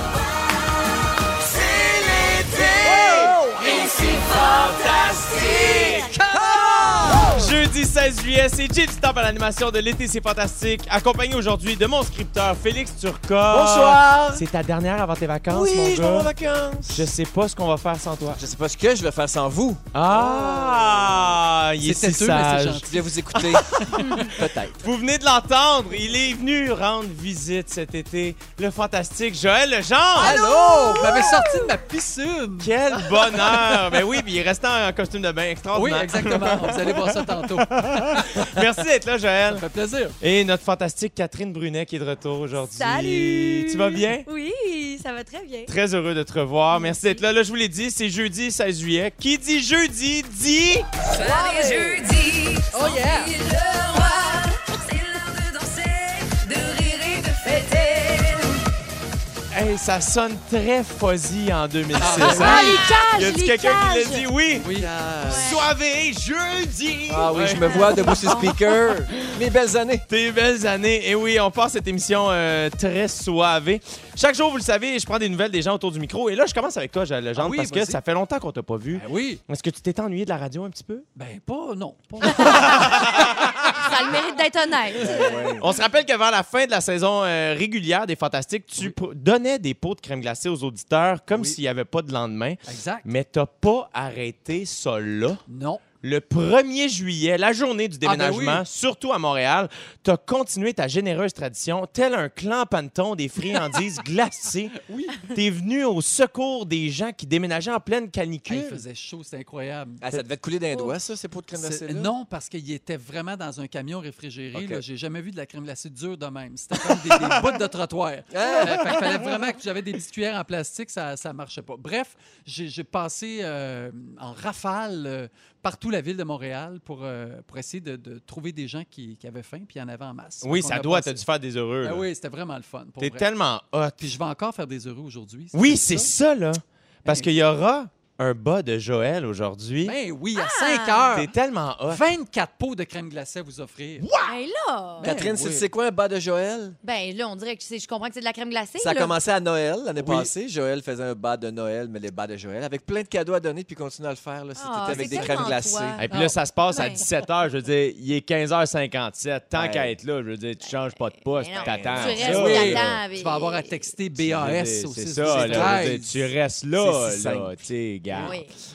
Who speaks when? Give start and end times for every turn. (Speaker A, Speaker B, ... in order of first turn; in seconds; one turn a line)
Speaker A: 2.8-3.8
Speaker B: 3.1-3.3
Speaker C: 4.0-4.3
Speaker B: 5.4-6.0
Speaker A: 5.8-7.3
Speaker B: 7.2-16.3
Speaker A: 13.5-14.4
Speaker A: 15.5-17.1
Speaker B: 16.9-18.4
Speaker A: 18.4-21.3
Speaker B: 19.9-24.2
Speaker D: 21.8-23.0
Speaker A: 22.9-24.8
Speaker E: 23.9-24.3
Speaker B: 24.8-30.5
Speaker D: 30.2-34.0
Speaker E: 30.2-31.6
Speaker B: 31.0-31.2
Speaker B: 32.6-39.6
Speaker D: 35.7-38.5
Speaker D: 39.5-40.1
Speaker B: 40.2-44.2
Speaker E: 42.7-45.7
Speaker B: 45.7-50.9
Speaker E: 46.7-47.2
Speaker E: 51.2-52.2
Speaker C: 52.1-52.6
Speaker E: 52.7-53.3
Speaker D: 52.7-53.3
Speaker C: 53.4-54.3
Speaker C: 54.9-58.3
Speaker B: 59.5-64.7
Speaker D: 62.0-62.8
Speaker E: 62.2-64.3
Speaker D: 64.6-64.9
Speaker A: 64.7-65.6
Speaker E: 65.2-65.6
Speaker B: 65.3-68.5
Speaker A: 67.1-70.0
Speaker E: 67.7-68.6
Speaker B: 70.1-81.0
Speaker D: 77.3-78.0
Speaker D: 78.9-79.4
Speaker D: 81.2-83.5
Speaker B: 82.2-83.4
Speaker E: 82.4-83.0
Speaker E: 83.8-85.3
Speaker A: 85.0-85.7
Speaker B: 85.6-95.4
Speaker D: 92.7-93.1
Speaker D: 95.5-95.8
Speaker B: 96.0-108.8
Speaker D: 98.0-98.6
Speaker D: 104.8-105.3
Speaker D: 108.5-110.0
Speaker A: 110.0-112.1
Speaker D: 111.5-131.2
Speaker A: 114.5-114.8
Speaker A: 118.3-119.0
Speaker B: 130.4-132.1
Speaker D: 131.8-133.3
Speaker B: 133.0-134.1
Speaker D: 134.0-136.1
Speaker B: 135.5-139.9
Speaker D: 137.0-137.3
Speaker D: 139.8-141.3
Speaker E: 140.3-141.1
Speaker B: 141.1-142.0
Speaker D: 141.9-144.1
Speaker B: 144.0-144.3
Speaker E: 144.2-145.1
Speaker D: 145.0-145.7
Speaker A: 145.0-146.8
Speaker E: 146.8-149.1
Speaker A: 148.8-156.0
Speaker D: 150.0-150.3
Speaker E: 154.6-156.0
Speaker D: 154.9-155.4
Speaker B: 156.0-163.0
Speaker D: 156.1-156.4
Speaker E: 156.7-157.0
Speaker A: 159.5-159.9
Speaker E: 161.3-163.9
Speaker A: 161.6-162.7
Speaker D: 162.2-166.3
Speaker B: 164.2-168.3
Speaker A: 165.2-165.9
Speaker A: 166.8-167.6
Speaker E: 168.2-168.5